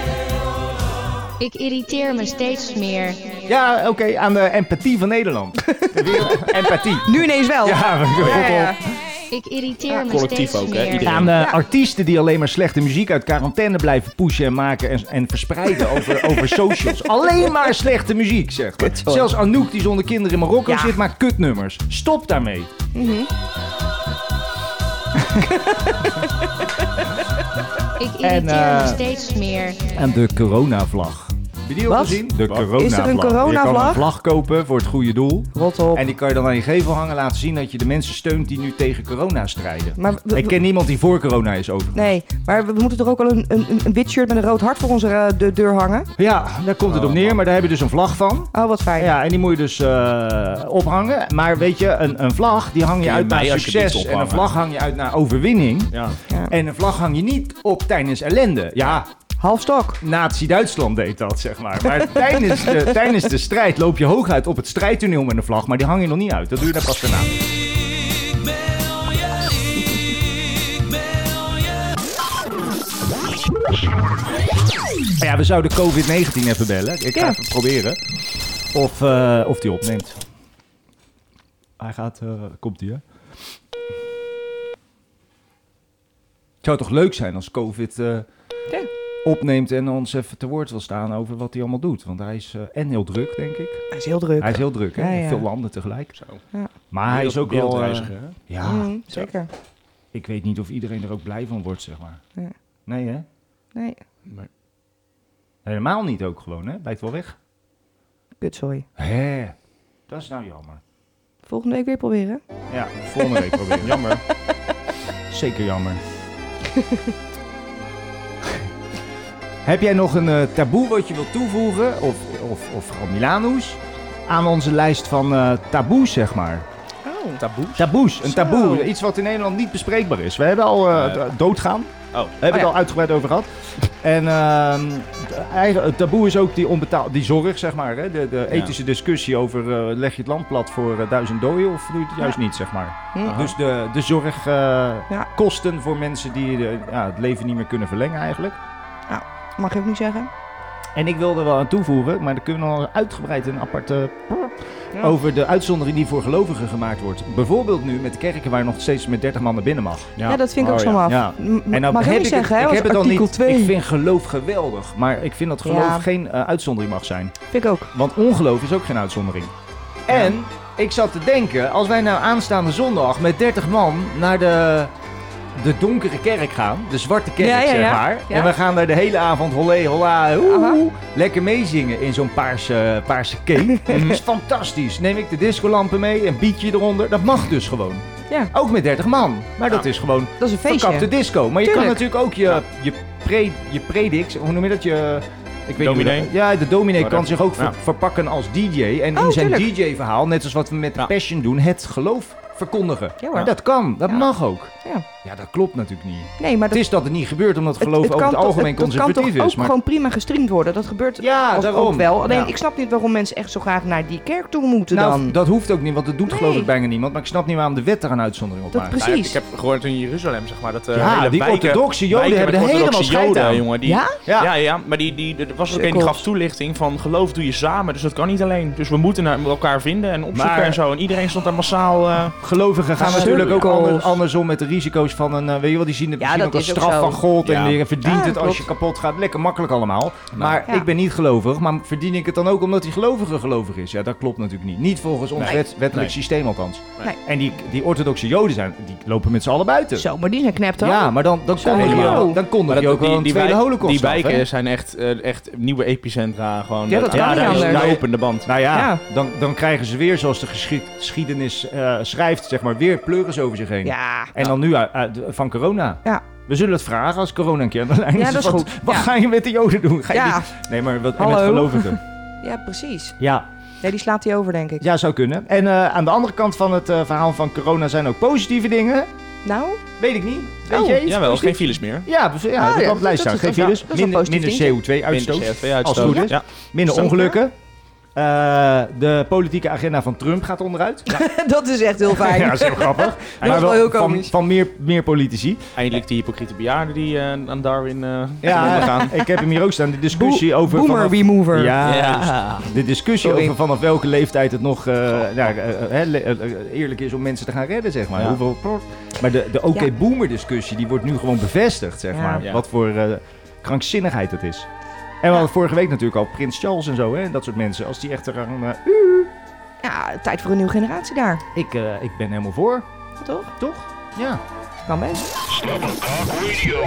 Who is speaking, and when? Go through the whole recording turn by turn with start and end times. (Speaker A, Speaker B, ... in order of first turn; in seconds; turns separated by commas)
Speaker A: 1.4-3.4, Speaker B: 3.5-8.8, Speaker C: 5.7-8.8, Speaker D: 8.2-8.5, Speaker A: 9.3-11.1, Speaker D: 9.9-11.3, Speaker B: 11.0-22.7, Speaker C: 11.3-11.6, Speaker C: 18.8-19.3, Speaker C: 20.7-20.9, Speaker C: 22.9-23.3, Speaker B: 25.1-25.6, Speaker C: 25.6-26.2, Speaker A: 28.0-29.9, Speaker B: 28.2-29.0, Speaker B: 29.9-42.1, Speaker C: 31.9-34.1, Speaker C: 35.5-36.1, Speaker C: 40.0-40.6, Speaker C: 41.9-46.1, Speaker B: 46.2-59.1, Speaker D: 46.9-47.4, Speaker C: 48.5-49.1, Speaker D: 53.0-54.5, Speaker C: 59.4-60.0, Speaker B: 60.0-67.3, Speaker B: 75.2-78.0, Speaker B: 78.7-80.2, Speaker B: 81.8-83.0, Speaker B: 86.6-88.3, Speaker B: 89.2-93.9, Speaker C: 93.9-95.4, Speaker B: 94.4-96.2, Speaker D: 96.2-96.4, Speaker B: 96.9-99.3, Speaker D: 97.1-98.4, Speaker C: 98.6-99.5, Speaker B: 100.1-102.2, Speaker B: 102.9-103.3, Speaker C: 103.8-104.0, Speaker B: 105.7-107.4, Speaker C: 108.4-108.9, Speaker B: 109.0-109.5, Speaker B: 110.1-110.8, Speaker C: 111.5-112.4, Speaker B: 112.7-114.2, Speaker C: 113.2-113.7, Speaker B: 115.3-116.0, Speaker C: 116.8-117.0, Speaker B: 119.6-126.7, Speaker C: 127.0-127.4, Speaker D: 127.4-127.9, Speaker B: 127.8-148.6, Speaker C: 128.2-128.9, Speaker D: 130.9-131.2, Speaker D: 143.2-143.5, Speaker C: 149.1-150.3, Speaker B: 150.9-160.2, Speaker D: 160.2-161.1, Speaker C: 160.2-163.8, Speaker B: 161.1-167.3, Speaker C: 165.6-166.1, Speaker C: 167.5-167.9, Speaker B: 167.9-169.5, Speaker B: 170.1-174.9, Speaker B: 175.6-209.7, Speaker C: 177.4-178.5, Speaker C: 180.4-180.8, Speaker D: 183.9-184.2, Speaker C: 190.4-192.0, Speaker D: 195.8-196.3, Speaker D: 197.0-197.7, Speaker C: 199.2-199.7, Speaker C: 203.2-203.5, Speaker C: 206.4-206.8, Speaker C: 207.8-215.4, Speaker B: 211.2-212.5, Speaker B: 214.9-219.0, Speaker C: 216.3-216.7, Speaker C: 218.8-219.4, Speaker D: 219.0-232.4, Speaker B: 220.9-223.7, Speaker C: 223.8-224.2, Speaker B: 224.2-224.5, Speaker C: 225.7-226.2, Speaker B: 230.3-230.8, Speaker B: 232.4-250.1, Speaker C: 233.0-234.2, Speaker D: 233.0-233.7, Speaker C: 236.2-237.2, Speaker D: 237.4-237.8, Speaker C: 238.0-238.7, Speaker D: 245.4-246.1, Speaker C: 250.0-252.4, Speaker B: 250.8-254.4, Speaker D: 251.7-258.5, Speaker C: 256.9-257.9, Speaker B: 257.1-272.0, Speaker C: 258.7-259.0, Speaker C: 263.8-264.3, Speaker C: 268.1-269.1, Speaker C: 270.1-270.5, Speaker C: 271.2-273.2, Speaker B: 273.2-273.5, Speaker C: 273.8-274.8, Speaker B: 274.8-279.1, Speaker C: 279.4-279.8, Speaker B: 280.0-287.5, Speaker C: 280.7-281.3, Speaker D: 281.0-282.1, Speaker C: 282.6-284.8, Speaker D: 285.1-287.3, Speaker C: 285.9-286.3, Speaker B: 288.2-291.1, Speaker C: 291.1-294.3, Speaker B: 292.1-295.8, Speaker D: 295.8-299.2, Speaker B: 298.4-314.7, Speaker C: 298.6-299.1, Speaker C: 300.1-301.8, Speaker D: 301.8-302.7, Speaker C: 303.2-303.5, Speaker C: 312.1-312.4, Speaker B: 315.2-319.3, Speaker C: 319.8-321.4, Speaker B: 321.5-322.9, Speaker C: 323.2-323.5, Speaker B: 323.6-324.4, Speaker C: 324.9-325.3